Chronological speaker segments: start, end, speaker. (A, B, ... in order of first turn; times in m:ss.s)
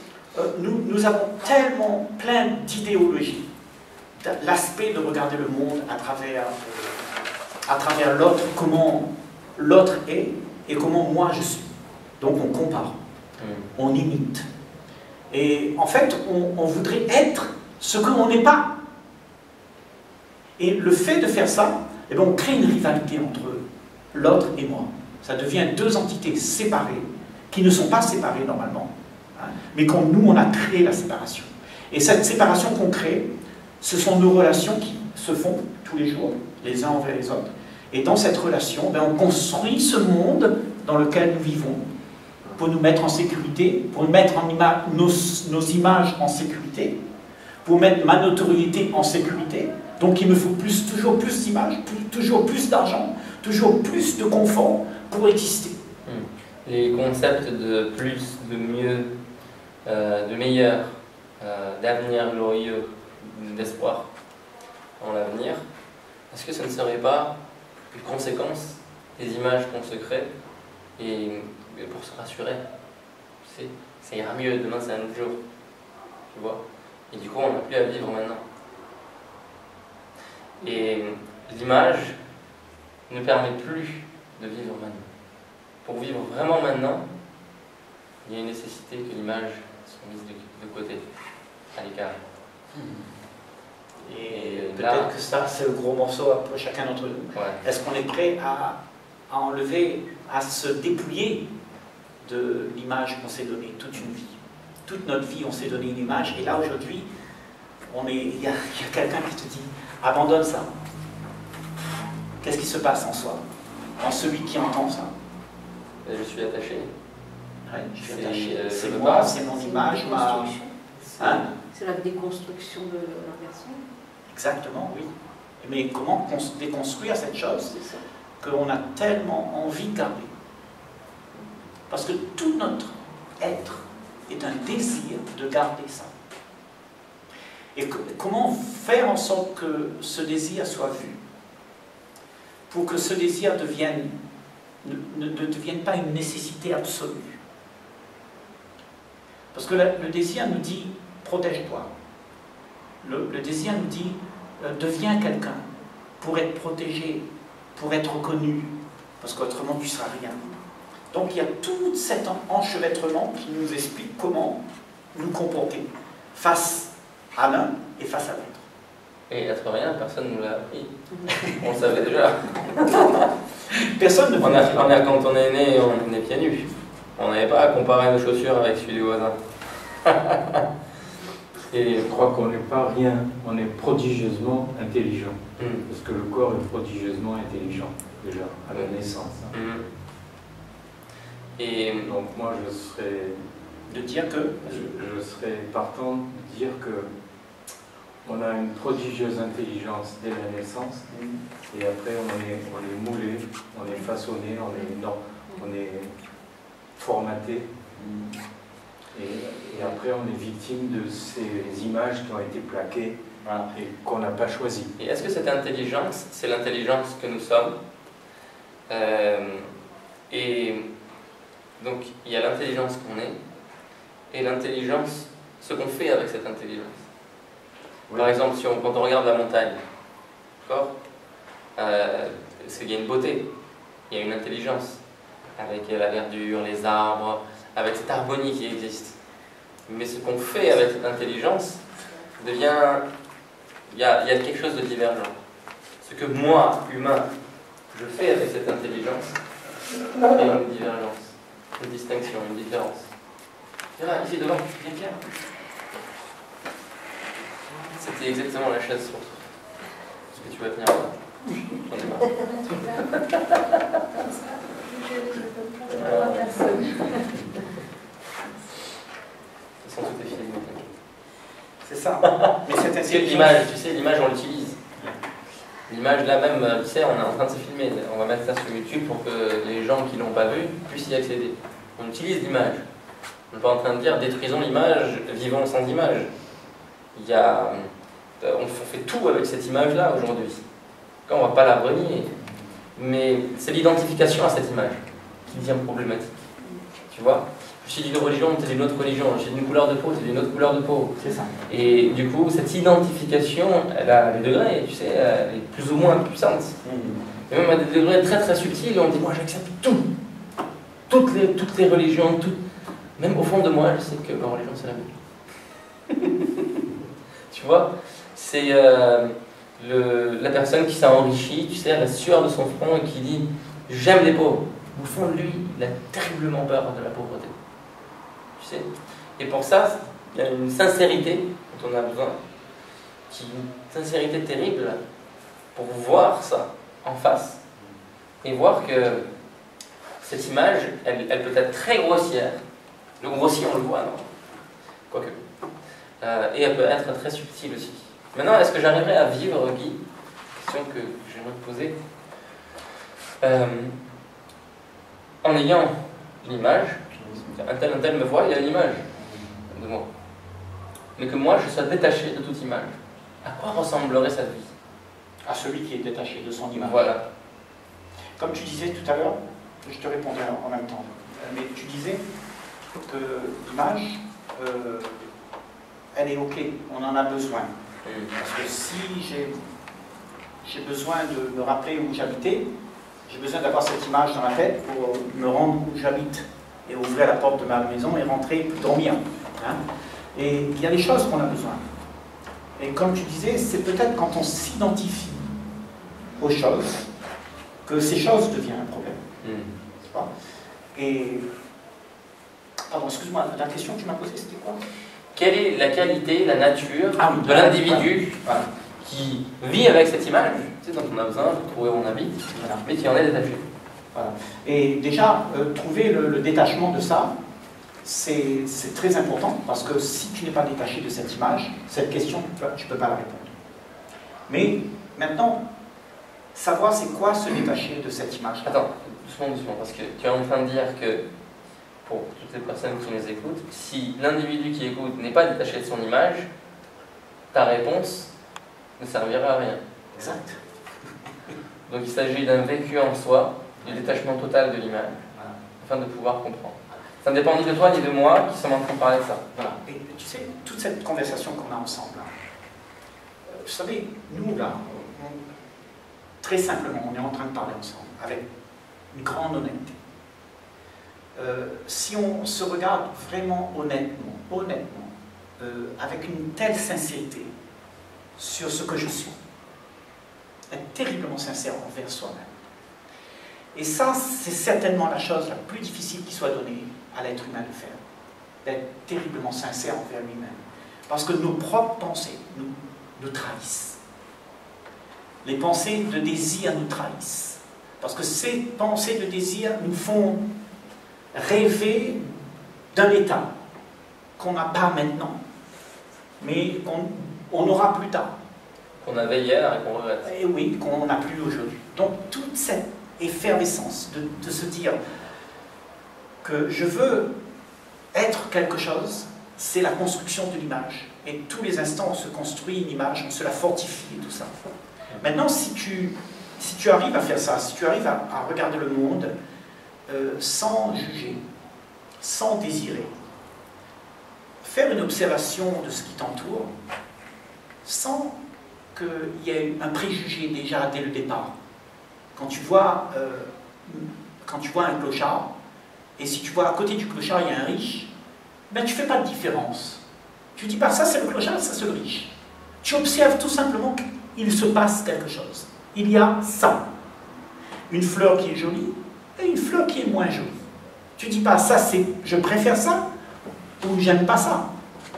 0:00.3-0:03.5 A
0:04.2-0:07.1 A
0:07.7-0:12.9 A
0:13.4-0:13.7 B
0:13.7-0:14.5 A
0:15.3-0:18.7 A
0:20.6-0:33.3 A
0:33.8-0:41.8 A
0:42.5-0:46.9 A
0:47.6-0:55.8 A
0:56.0-0:59.1 B
0:59.8-1:04.1 B
1:05.0-1:05.6 B
1:06.3-1:07.3 B
1:07.9-1:10.3 B
1:11.0-1:12.6 B
1:13.4-1:15.4 B
1:16.3-1:18.4 B
1:20.6-1:22.2 B
1:23.1-1:25.1 B
1:25.8-1:27.0 B
1:28.2-1:31.0 B
1:31.7-1:32.2 B
1:32.7-1:33.0 A
1:34.0-1:38.8 A
1:34.3-1:35.1 B
1:37.3-1:37.6 B
1:39.3-1:41.4 A
1:42.2-1:47.1 A
1:47.8-1:50.7 A
1:52.4-1:53.4 A
1:54.0-1:55.1 A
1:56.0-1:56.9 B
1:57.6-2:00.5 A
1:58.0-1:59.4 B
1:59.3-2:00.7 C
2:01.1-2:01.4 B
2:01.2-2:01.5 A
2:01.3-2:03.8 C
2:04.3-2:05.0 A
2:05.6-2:07.8 A
2:07.7-2:08.0 C
2:08.4-2:10.3 A
2:11.9-2:16.1 A
2:17.7-2:21.2 A
2:22.7-2:24.1 A
2:24.8-2:27.4 A
2:29.5-2:31.9 A
2:33.0-2:35.6 A
2:36.2-2:37.2 A
2:37.8-2:40.6 A
2:41.1-2:44.6 A
2:45.1-2:48.6 A
2:49.3-2:53.3 B
2:53.7-2:55.1 A
2:54.4-2:59.4 B
3:00.0-3:00.6 B
3:01.7-3:02.1 B
3:02.0-3:09.5 D
3:05.6-3:05.8 B
3:08.7-3:09.0 B
3:09.5-3:09.8 B
3:11.6-3:12.1 B
3:12.0-3:13.4 D
3:13.9-3:14.9 A
3:14.6-3:17.1 D
3:18.2-3:21.0 D
3:21.1-3:21.4 A
3:21.7-3:26.1 D
3:27.0-3:27.7 D
3:27.9-3:28.3 A
3:29.1-3:33.2 D
3:33.4-3:33.7 A
3:33.7-3:34.9 D
3:35.0-3:37.8 B
3:38.9-3:39.7 B
3:40.3-3:40.8 B
3:41.8-3:43.4 B
3:44.3-3:47.0 B
3:48.1-3:49.8 B
3:50.6-3:50.9 B
3:51.8-3:53.5 B
3:54.1-3:55.0 B
3:55.6-3:59.2 B
3:59.9-4:01.8 B
4:02.4-4:03.0 B
4:03.9-4:05.3 B
4:06.0-4:07.3 B
4:07.9-4:09.4 B
4:10.3-4:13.1 B
4:14.0-4:14.7 B
4:14.8-4:15.2 A
4:18.0-4:19.5 B
4:20.3-4:22.8 B
4:22.7-4:22.9 C
4:24.2-4:27.3 C
4:25.9-4:26.8 B
4:29.8-4:30.8 B
4:31.8-4:33.6 A
4:32.2-4:34.8 B
4:35.9-4:42.8 B
4:43.5-4:46.3 B
4:47.1-4:50.6 B
4:51.3-4:52.3 B
4:53.0-4:56.3 B
4:57.1-5:01.1 B
5:01.2-5:01.5 A
5:01.7-5:06.8 B
5:06.8-5:07.2 A
5:07.5-5:10.1 B
5:11.1-5:12.6 B
5:13.2-5:15.1 B
5:16.1-5:16.5 B
5:17.5-5:27.5 B
5:28.6-5:32.4 B
5:33.3-5:35.0 B
5:35.7-5:37.6 B
5:38.4-5:39.2 B
5:40.2-5:42.6 B
5:43.2-5:44.3 B
5:45.1-5:45.4 B
5:46.2-5:50.0 B
5:50.6-5:52.0 B
5:53.4-5:54.0 B
5:55.4-5:59.0 B
5:57.2-5:57.4 A
5:59.2-5:59.5 A
5:59.7-6:00.0 B
6:01.2-6:04.7 B
6:05.4-6:07.0 A
6:06.8-6:07.2 B
6:08.4-6:12.2 A
6:13.0-6:15.2 A
6:16.1-6:17.7 A
6:18.0-6:18.3 B
6:18.4-6:19.5 A
6:20.6-6:22.6 A
6:23.3-6:29.8 A
6:30.3-6:31.8 A
6:32.8-6:35.5 A
6:36.4-6:37.1 A
6:37.8-6:39.2 A
6:39.4-6:39.8 B
6:40.9-6:41.4 A
6:42.9-6:44.8 A
6:45.3-6:48.4 B
6:47.2-6:48.6 A
6:49.0-6:53.6 B
6:52.5-6:52.8 A
6:54.1-6:57.3 A
6:58.0-7:03.5 A
7:04.5-7:05.6 A
7:06.5-7:08.8 A
7:08.6-7:11.2 B
7:12.0-7:16.5 B
7:17.5-7:18.3 B
7:19.0-7:19.8 B
7:20.1-7:20.6 A
7:21.9-7:25.2 B
7:25.8-7:29.7 B
7:29.6-7:32.3 A
7:33.5-7:35.4 A
7:36.4-7:38.4 A
7:39.1-7:39.9 A
7:41.3-7:47.5 A
7:48.4-7:49.3 A
7:50.7-7:52.5 A
7:53.7-7:58.0 A
7:58.6-8:04.0 A
8:05.4-8:10.4 A
8:11.3-8:12.2 A
8:12.9-8:13.5 A
8:14.4-8:15.4 A
8:16.4-8:18.3 A
8:19.0-8:20.3 B
8:20.2-8:25.0 A
8:26.4-8:27.3 A
8:28.1-8:34.5 A
8:35.2-8:39.3 A
8:40.1-8:41.4 A
8:42.2-8:43.1 A
8:44.6-8:46.7 A
8:47.8-8:48.4 A
8:48.9-8:51.5 A
8:52.3-8:55.5 A
8:56.2-8:58.1 A
8:58.7-9:00.0 A
9:00.6-9:06.8 A
9:07.9-9:10.6 A
9:11.2-9:13.0 A
9:13.8-9:14.7 A